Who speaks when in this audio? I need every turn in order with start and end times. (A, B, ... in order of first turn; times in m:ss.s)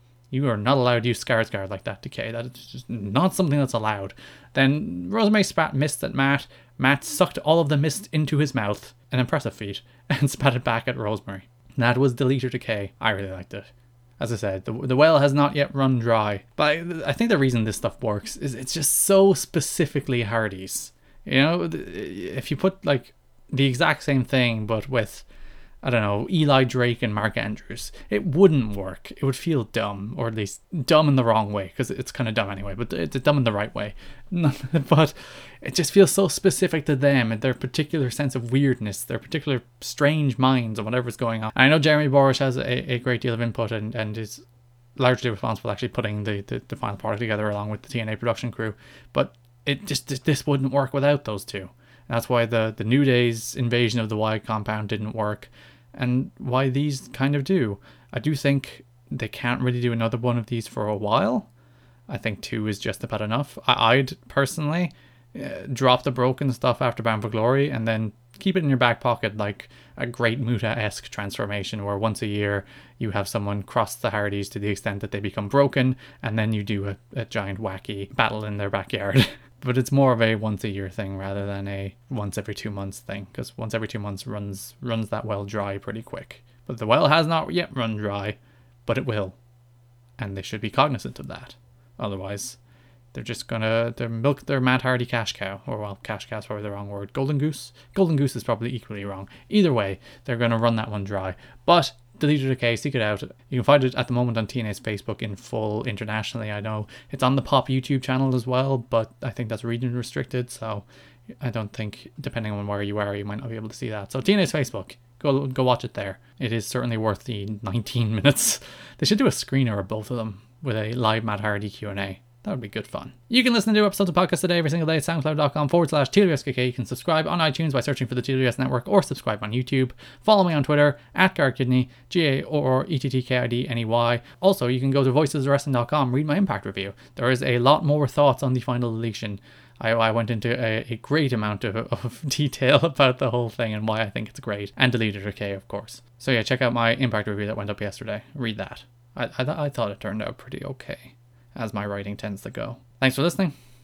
0:00.3-0:25.2 A
0:25.8-0:44.4 A
0:45.0-1:01.5 A
1:02.1-1:29.4 A
1:30.2-1:32.6 A
1:33.1-1:50.8 A
1:51.4-2:33.5 A